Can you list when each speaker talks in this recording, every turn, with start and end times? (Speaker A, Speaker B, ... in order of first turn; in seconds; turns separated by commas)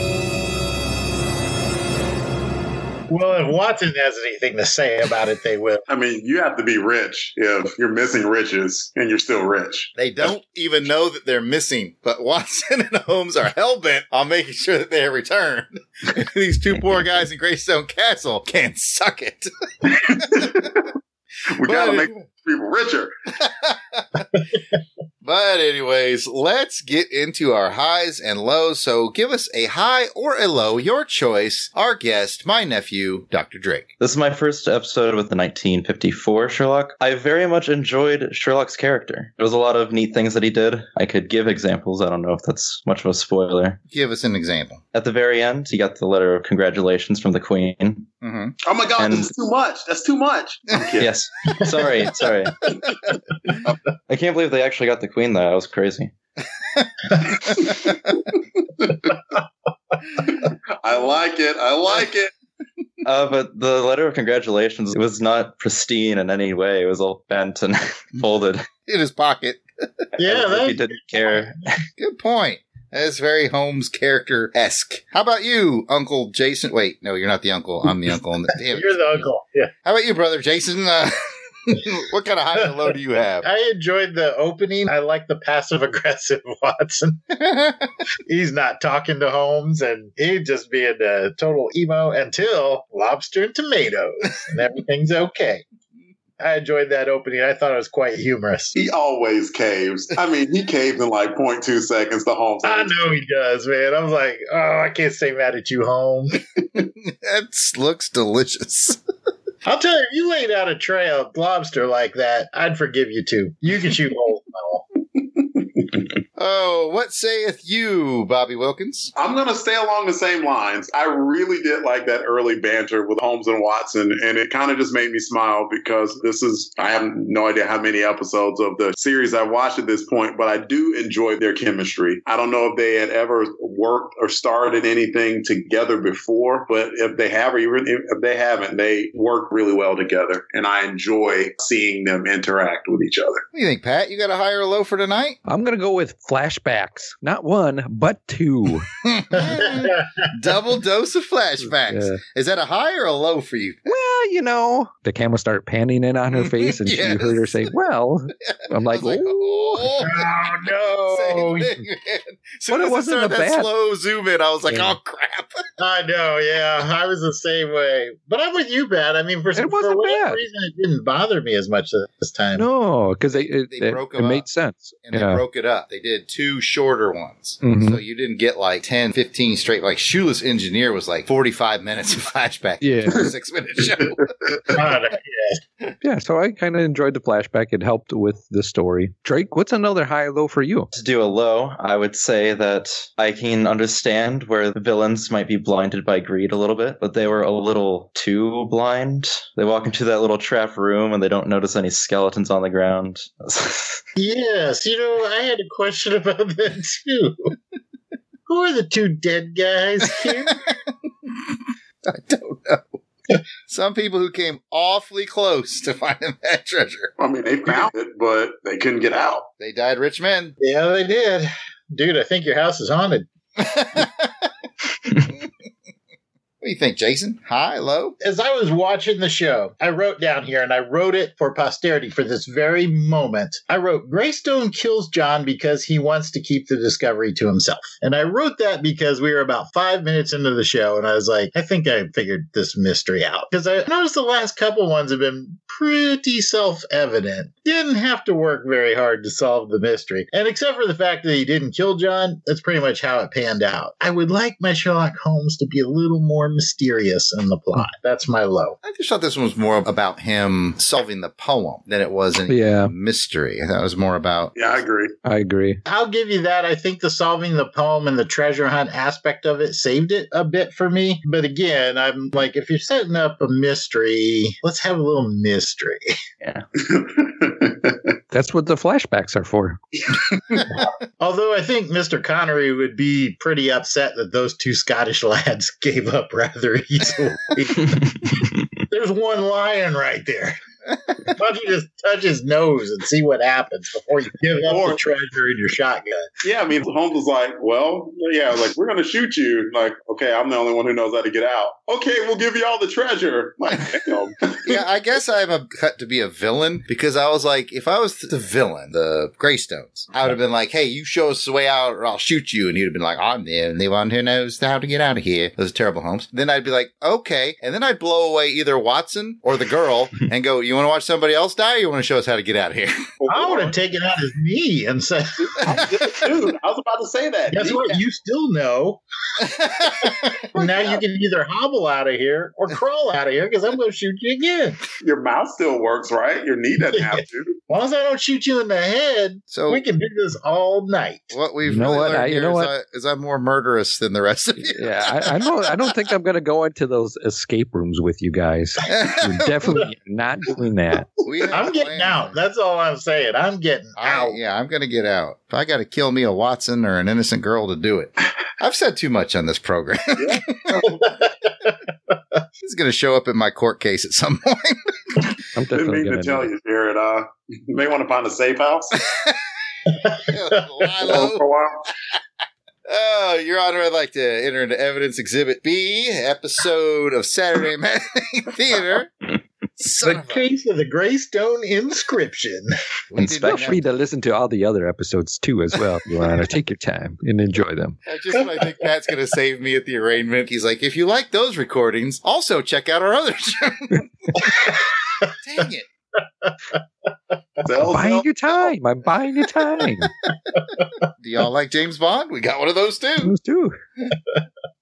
Speaker A: 3.1-5.8, Speaker B: 5.9-9.9, Speaker C: 10.0-20.7, Speaker B: 19.9-20.9, Speaker B: 21.5-23.1, Speaker C: 21.6-22.2, Speaker C: 23.4-24.4, Speaker C: 25.2-33.9, Speaker D: 34.0-43.8, Speaker C: 43.9-44.8, Speaker D: 44.9-48.1, Speaker C: 48.2-48.5, Speaker B: 48.6-51.1, Speaker D: 49.0-49.3, Speaker D: 51.0-52.7, Speaker D: 54.1-56.1, Speaker B: 58.8-59.1, Speaker B: 60.2-62.3, Speaker D: 63.0-68.7, Speaker C: 68.9-70.0, Speaker A: 70.2-71.3, Speaker D: 70.2-71.8, Speaker C: 72.0-79.0, Speaker A: 78.7-79.7, Speaker C: 79.8-83.5, Speaker A: 83.4-87.2, Speaker C: 87.3-87.9, Speaker A: 88.2-95.6, Speaker A: 96.4-98.7, Speaker B: 98.7-103.1, Speaker A: 102.6-106.4, Speaker C: 106.7-109.0, Speaker A: 109.6-114.8, Speaker C: 116.4-119.1, Speaker B: 119.2-143.4, Speaker C: 143.5-145.4, Speaker E: 145.5-148.9, Speaker C: 149.0-153.8, Speaker A: 149.3-150.3, Speaker E: 151.7-152.2, Speaker E: 153.8-160.0, Speaker C: 156.3-157.7, Speaker C: 158.5-165.6, Speaker A: 160.0-161.8, Speaker E: 162.7-163.7, Speaker E: 164.7-164.9, Speaker A: 165.8-172.7, Speaker E: 169.6-170.4, Speaker E: 172.5-175.4, Speaker C: 173.7-174.4, Speaker C: 175.0-184.6, Speaker E: 177.6-178.0, Speaker E: 182.8-183.3, Speaker B: 184.0-184.7, Speaker A: 184.7-185.6, Speaker E: 186.0-190.9, Speaker D: 190.9-204.0, Speaker A: 204.2-207.5, Speaker A: 208.5-210.6, Speaker C: 211.3-211.5, Speaker C: 212.0-213.0, Speaker C: 213.7-217.1, Speaker B: 217.2-219.5, Speaker C: 219.6-220.5, Speaker A: 220.6-223.3, Speaker C: 223.6-224.5, Speaker C: 225.2-225.5, Speaker C: 226.6-228.2, Speaker A: 228.2-258.8, Speaker C: 258.8-264.5, Speaker E: 262.5-262.9, Speaker B: 264.6-265.1, Speaker E: 265.2-265.8, Speaker A: 265.9-276.1, Speaker B: 276.8-278.1, Speaker E: 278.3-279.8, Speaker B: 280.0-280.6, Speaker A: 280.7-288.4, Speaker A: 288.9-290.6, Speaker A: 291.2-296.3, Speaker B: 294.6-295.0, Speaker B: 296.4-304.8, Speaker C: 304.6-323.1, Speaker B: 323.2-323.8, Speaker A: 323.3-325.8, Speaker B: 325.4-328.0, Speaker A: 327.5-329.0, Speaker C: 329.4-331.0, Speaker A: 330.0-334.8, Speaker B: 335.0-337.6, Speaker A: 337.0-341.4, Speaker C: 339.5-339.8, Speaker C: 341.3-345.5, Speaker E: 341.6-342.7, Speaker E: 344.7-351.1, Speaker C: 348.9-349.8, Speaker C: 351.2-352.4, Speaker A: 351.5-354.4, Speaker C: 354.0-360.8, Speaker B: 360.2-361.0, Speaker A: 361.0-362.1, Speaker C: 362.6-365.3, Speaker E: 365.5-366.5, Speaker B: 365.7-369.0, Speaker C: 369.1-369.4, Speaker A: 369.9-370.6, Speaker C: 370.1-371.4, Speaker B: 371.1-371.9, Speaker C: 372.9-379.1, Speaker C: 379.8-380.4, Speaker A: 380.0-382.7, Speaker C: 383.1-383.9, Speaker E: 383.2-388.0, Speaker C: 388.1-395.9, Speaker A: 396.4-396.8, Speaker B: 397.6-398.7, Speaker E: 397.8-400.1, Speaker A: 400.3-401.0, Speaker C: 401.2-403.3, Speaker E: 403.2-403.8